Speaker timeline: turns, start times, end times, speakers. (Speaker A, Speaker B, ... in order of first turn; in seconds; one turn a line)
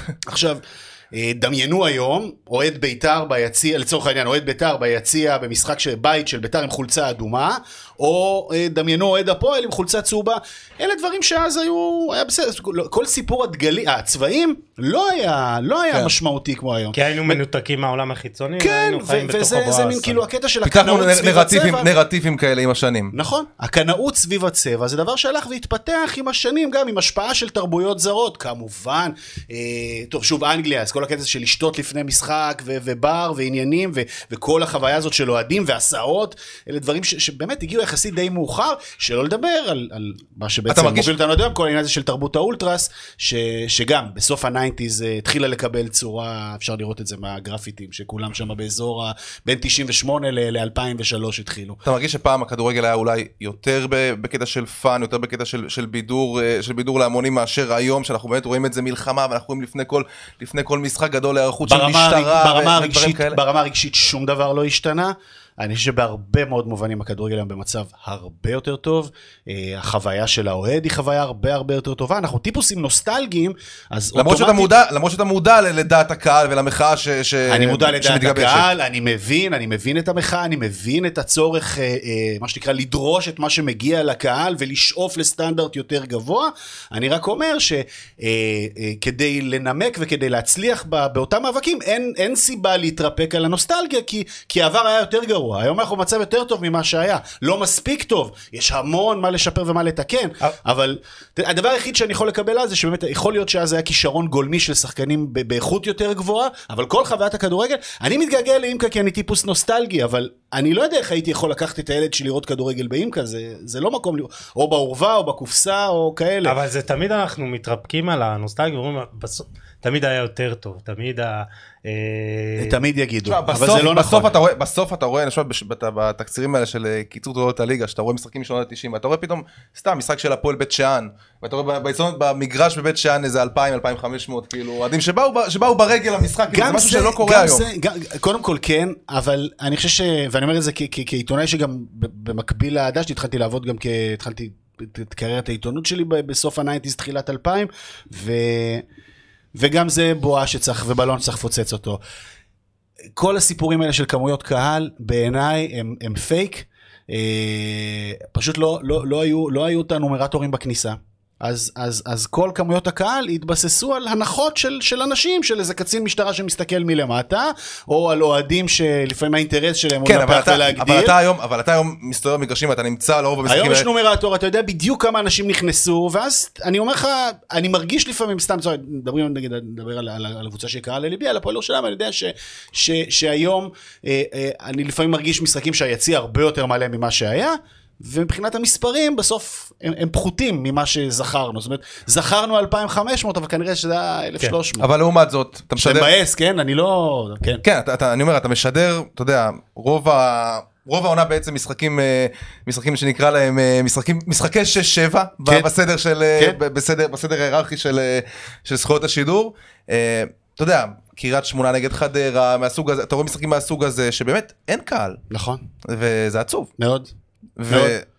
Speaker A: 0.2-0.6
Speaker A: 1.1-17.4
Speaker B: 16.9-20.2
Speaker A: 18.6-21.9
Speaker C: 20.6-23.1
Speaker A: 23.1-51.8
Speaker C: 40.7-41.1
Speaker C: 51.8-63.4
Speaker A: 61.7-74.7
Speaker C: 74.2-78.7
Speaker A: 77.5-116.6
Speaker B: 116.4-122.8
Speaker A: 122.6-124.3
Speaker C: 123.2-137.7
Speaker A: 136.5-148.8
Speaker A: 149.6-152.0
Speaker A: 153.1-171.2
Speaker C: 170.1-173.8
Speaker A: 173.4-194.9
Speaker C: 194.8-196.1
Speaker A: 195.8-197.6
Speaker C: 197.6-215.2
Speaker A: 205.4-205.7
Speaker A: 215.3-215.6
Speaker C: 215.8-216.7
Speaker A: 216.8-217.1
Speaker C: 217.6-218.0
Speaker A: 217.7-217.9